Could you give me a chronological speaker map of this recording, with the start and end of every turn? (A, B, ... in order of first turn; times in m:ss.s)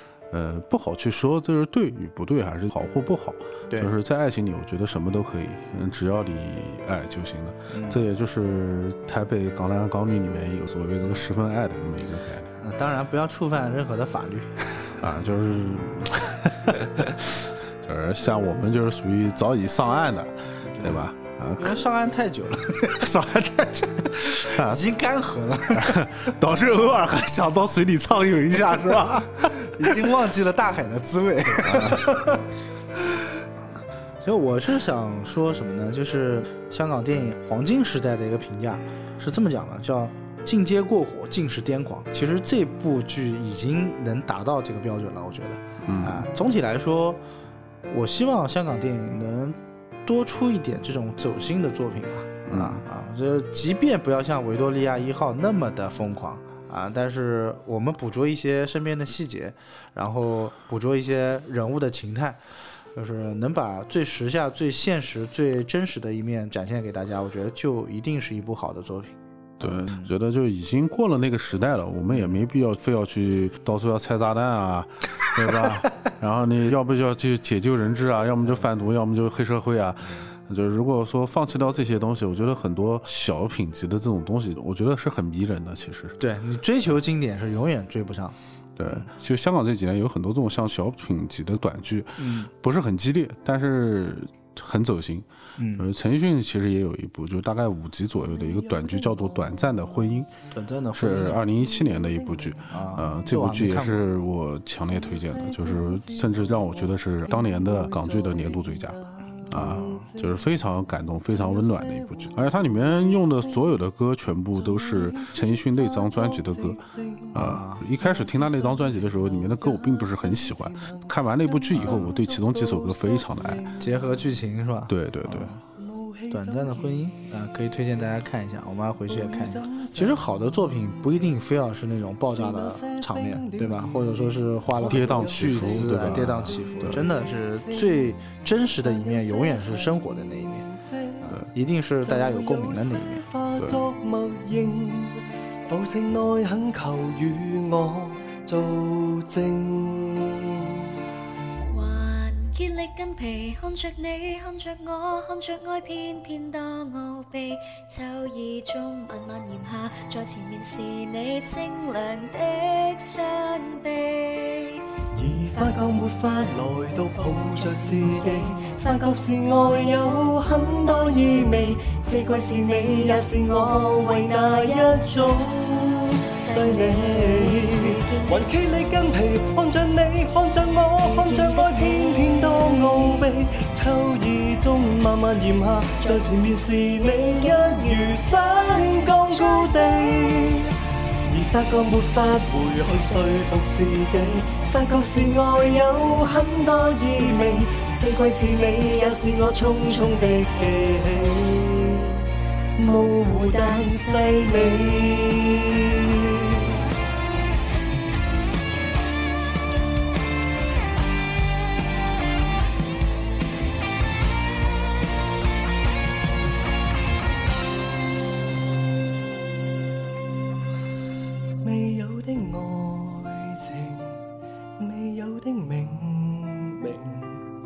0:00.3-0:12.5 A
0:03.7-0:04.0 B
0:07.7-0:08.0 B
0:12.6-0:15.0 B
0:15.0-0:21.8 A
0:21.6-0:23.1 B
0:22.9-0:24.9 A
0:24.2-0:26.5 B
0:25.7-0:30.0 A
0:28.9-0:32.5 B
0:31.6-0:32.2 A
0:34.2-0:47.2 B
0:45.8-0:46.3 A
0:47.9-1:02.4 B
0:52.5-0:52.8 A
1:03.0-1:10.1 B
1:09.6-1:26.2 A
1:12.1-1:12.4 B
1:26.2-1:28.4 B
1:28.8-1:40.3 A
1:32.2-1:32.5 B
1:35.6-1:35.9 B
1:38.2-1:40.3 C
1:40.5-1:41.4 B
1:40.9-1:49.0 A
1:41.4-1:42.7 C
1:42.7-1:44.1 B
1:44.8-1:50.8 C
1:49.5-2:03.7 A
1:49.5-1:50.1 B
1:51.3-1:53.8 C
1:54.6-2:04.2 C
1:57.4-1:57.8 B
2:01.8-2:02.1 B
2:03.8-2:05.6 B
2:04.9-2:05.5 A
2:05.8-2:07.1 C
2:06.3-2:20.7 B
2:09.1-2:11.3 C
2:12.2-2:21.4 C
2:14.9-2:17.1 A
2:21.2-2:23.2 B
2:22.0-2:30.8 C
2:23.6-2:23.9 A
2:31.7-2:44.8 D
2:45.1-3:22.2 C
2:47.5-2:49.0 D
2:51.3-2:55.1 D
2:56.4-2:58.7 D
3:01.0-3:03.3 D
3:06.0-3:10.7 D
3:13.0-3:13.4 D
3:14.9-3:20.3 D
3:22.8-3:26.8 C
3:23.5-3:24.1 D
3:41.6-3:44.2 C
3:44.8-3:47.5 C